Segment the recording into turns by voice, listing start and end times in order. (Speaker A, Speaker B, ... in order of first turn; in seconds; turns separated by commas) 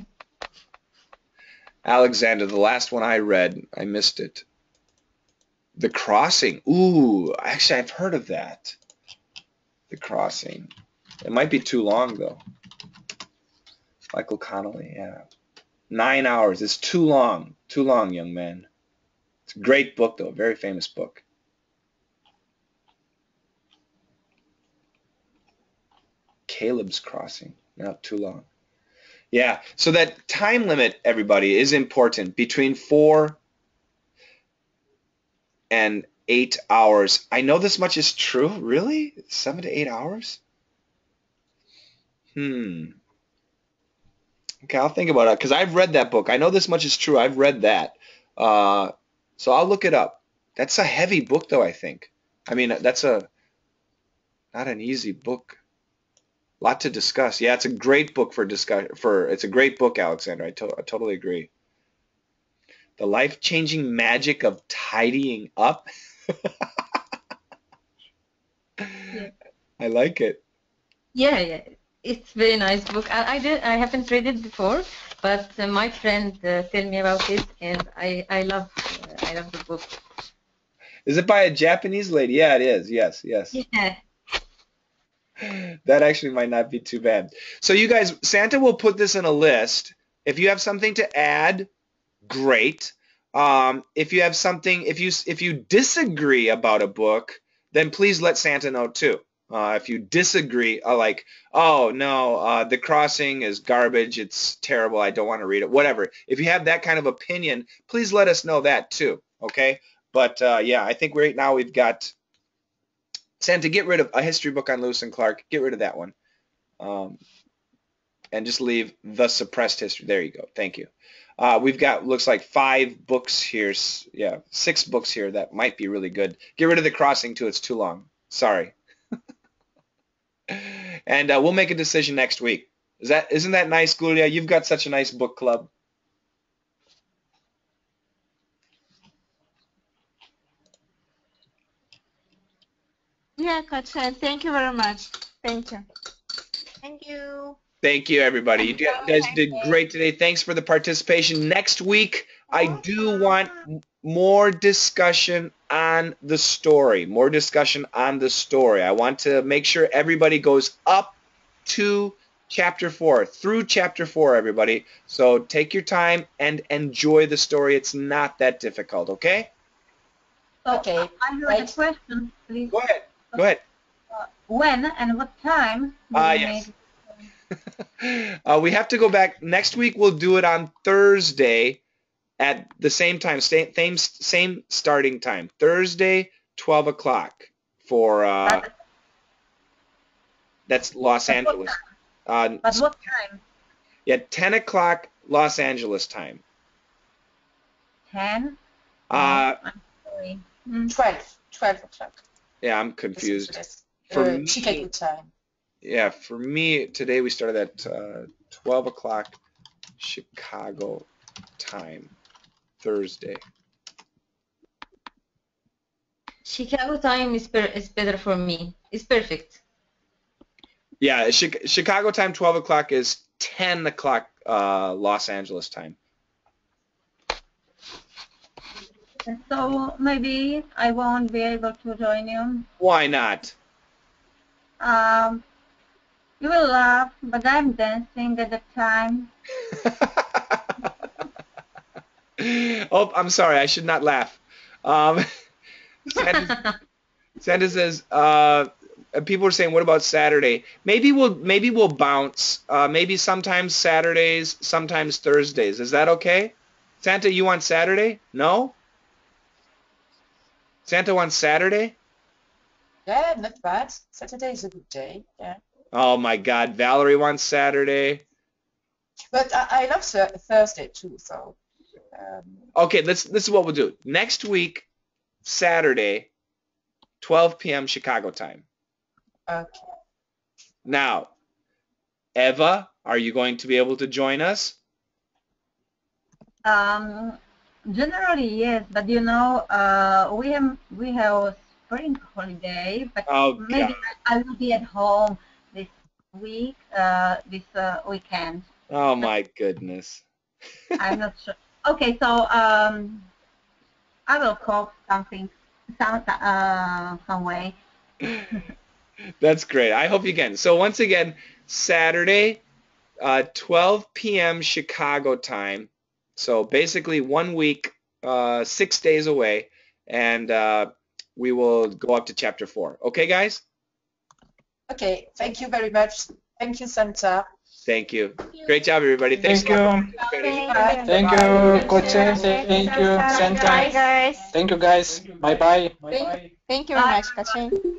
Speaker A: 1.8-4.4, Speaker A: 5.8-8.8, Speaker A: 9.9-10.7, Speaker A: 11.2-12.4, Speaker A: 14.1-15.2, Speaker A: 15.9-18.7, Speaker A: 19.5-21.2, Speaker A: 26.5-28.5, Speaker A: 29.3-33.4, Speaker A: 35.7-40.4, Speaker A: 42.4-43.0, Speaker A: 44.6-53.3, Speaker A: 54.5-55.6, Speaker A: 56.6-61.5, Speaker A: 63.0-66.5, Speaker A: 68.8-70.4, Speaker B: 71.1-80.0, Speaker A: 81.0-83.6, Speaker B: 83.5-84.0, Speaker A: 85.4-91.7, Speaker A: 92.2-112.1, Speaker A: 113.4-116.1, Speaker A: 116.8-117.2, Speaker A: 118.3-128.8, Speaker A: 130.5-135.7, Speaker C: 143.4-145.9, Speaker C: 146.8-147.6, Speaker A: 147.8-169.5, Speaker C: 148.8-149.5, Speaker D: 170.6-172.8, Speaker E: 170.7-171.8, Speaker A: 172.7-173.6, Speaker D: 174.1-177.3, Speaker A: 176.1-176.7, Speaker A: 178.0-181.8, Speaker A: 182.4-188.7, Speaker A: 190.7-192.8, Speaker D: 191.3-191.7, Speaker D: 192.6-193.4, Speaker A: 194.1-196.4, Speaker D: 198.1-198.6, Speaker A: 199.1-199.6, Speaker D: 199.1-200.9, Speaker E: 200.9-202.2, Speaker A: 202.6-203.6, Speaker E: 203.2-205.3, Speaker A: 204.1-204.9, Speaker A: 205.8-209.4, Speaker A: 210.0-211.1, Speaker A: 211.6-212.1, Speaker A: 212.8-213.4, Speaker B: 216.4-219.6, Speaker A: 221.0-226.0, Speaker D: 229.3-232.7, Speaker A: 232.8-233.6, Speaker D: 234.8-235.4, Speaker D: 236.4-239.3, Speaker A: 239.9-240.6, Speaker A: 242.4-245.2, Speaker A: 246.1-246.6, Speaker B: 246.3-246.7, Speaker A: 247.4-258.8, Speaker A: 260.9-262.0, Speaker E: 263.1-265.6, Speaker A: 265.9-268.2, Speaker E: 269.3-271.6, Speaker E: 272.1-272.7, Speaker A: 272.8-274.9, Speaker A: 275.4-276.3, Speaker A: 277.2-278.6, Speaker E: 279.5-279.9, Speaker A: 280.9-281.3, Speaker A: 282.4-284.8, Speaker D: 286.6-298.7, Speaker A: 293.3-294.0, Speaker A: 298.9-300.2, Speaker D: 301.0-303.3, Speaker D: 304.3-308.6, Speaker A: 309.4-312.6, Speaker A: 313.2-323.6, Speaker E: 324.9-327.5, Speaker A: 327.9-330.7, Speaker F: 329.4-330.1, Speaker C: 330.1-334.5, Speaker E: 330.7-331.4, Speaker F: 331.0-334.0, Speaker E: 333.5-333.9, Speaker F: 334.5-336.5, Speaker C: 336.1-337.8